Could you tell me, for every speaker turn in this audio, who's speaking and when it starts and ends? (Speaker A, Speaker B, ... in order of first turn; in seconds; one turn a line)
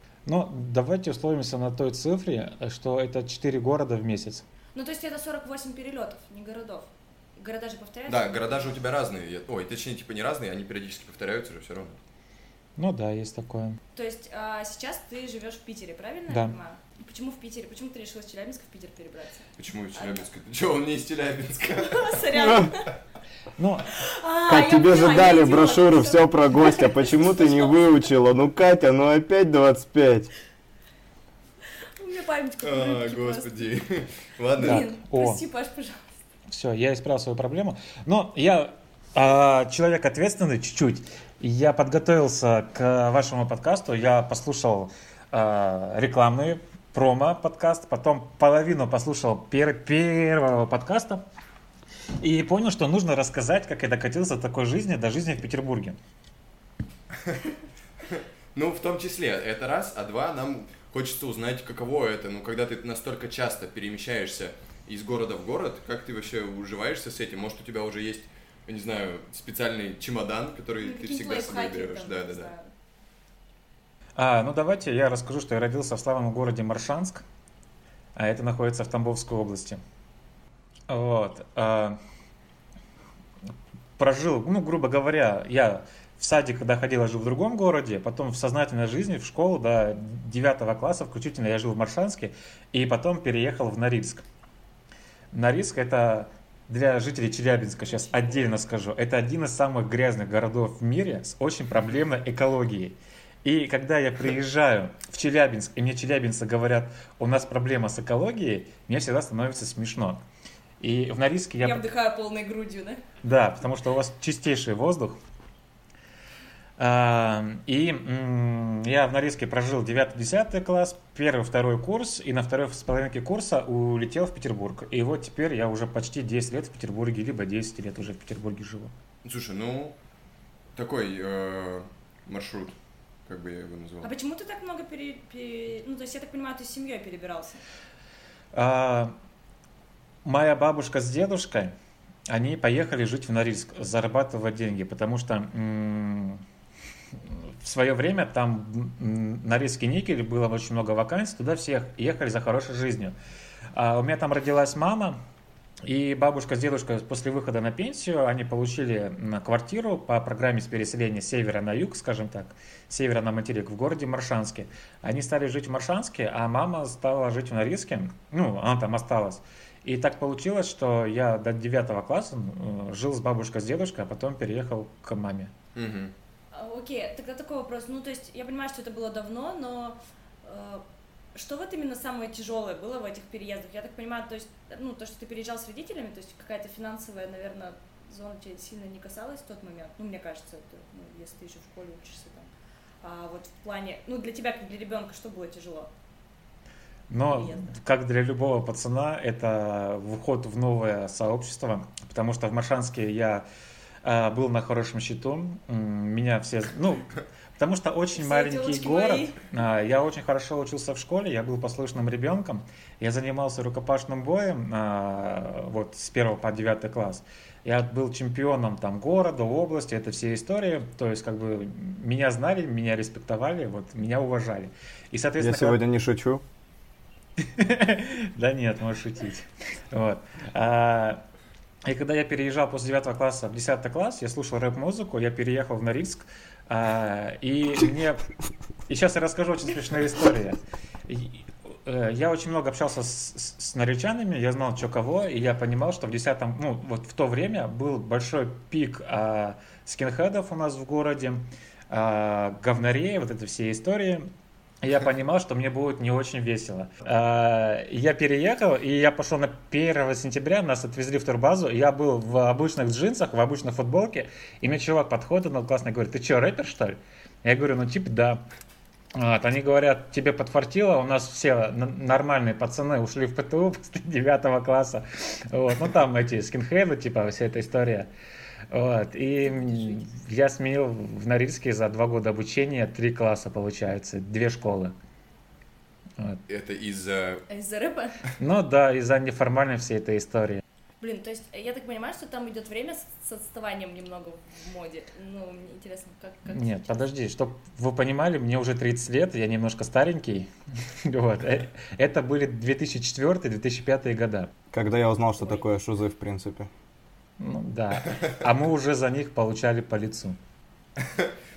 Speaker A: 0.2-4.4
Speaker B: 4.7-8.8
Speaker C: 8.1-12.0
Speaker A: 12.8-13.8
Speaker B: 13.9-20.2
Speaker A: 16.3-16.6
Speaker C: 19.6-22.6
Speaker B: 21.8-22.9
Speaker D: 22.4-22.7
Speaker A: 23.6-23.9
Speaker B: 23.9-28.1
Speaker D: 24.5-30.3
Speaker B: 32.0-33.5
Speaker C: 32.6-34.8
Speaker B: 34.6-36.2
Speaker A: 34.6-35.4
Speaker A: 36.5-51.2
Speaker A: 52.2-56.0
Speaker C: 58.1-72.5
Speaker B: 70.8-72.7
Speaker A: 74.2-77.2
Speaker A: 78.2-79.8
Speaker A: 80.9-82.0
Speaker A: 84.0-94.2
Speaker A: 95.3-110.2
Speaker B: 97.9-98.6
Speaker A: 110.8-111.9
Speaker B: 111.6-113.0
Speaker A: 113.2-115.2
Speaker A: 116.8-128.9
Speaker C: 129.2-130.0
Speaker C: 130.8-132.8
Speaker C: 133.3-134.1
Speaker B: 134.0-137.6
Speaker A: 138.5-139.1
Speaker A: 140.2-141.7
Speaker A: 142.3-146.4
Speaker A: 147.3-153.2
Speaker A: 153.7-155.2
Speaker A: 155.8-175.5
Speaker C: 175.8-176.1
Speaker B: 176.5-192.5
Speaker B: 193.0-195.9
Speaker A: 197.1-203.4
Speaker B: 197.3-197.7
Speaker A: 204.0-225.8
Speaker B: 208.1-209.4
Speaker D: 225.4-226.4
Speaker A: 227.4-231.2
Speaker A: 231.8-238.2
Speaker A: 238.9-254.2
Speaker A: 254.8-268.4
Speaker A: 269.1-278.1
Speaker A: 278.7-284.9
Speaker B: 279.6-280.0
Speaker C: 286.5-287.4
Speaker B: 287.5-288.2
Speaker A: 288.4-290.6
Speaker B: 291.0-297.0
Speaker A: 296.5-304.5
Speaker D: 304.7-306.7
Speaker A: 307.4-310.4
Speaker C: 311.0-311.3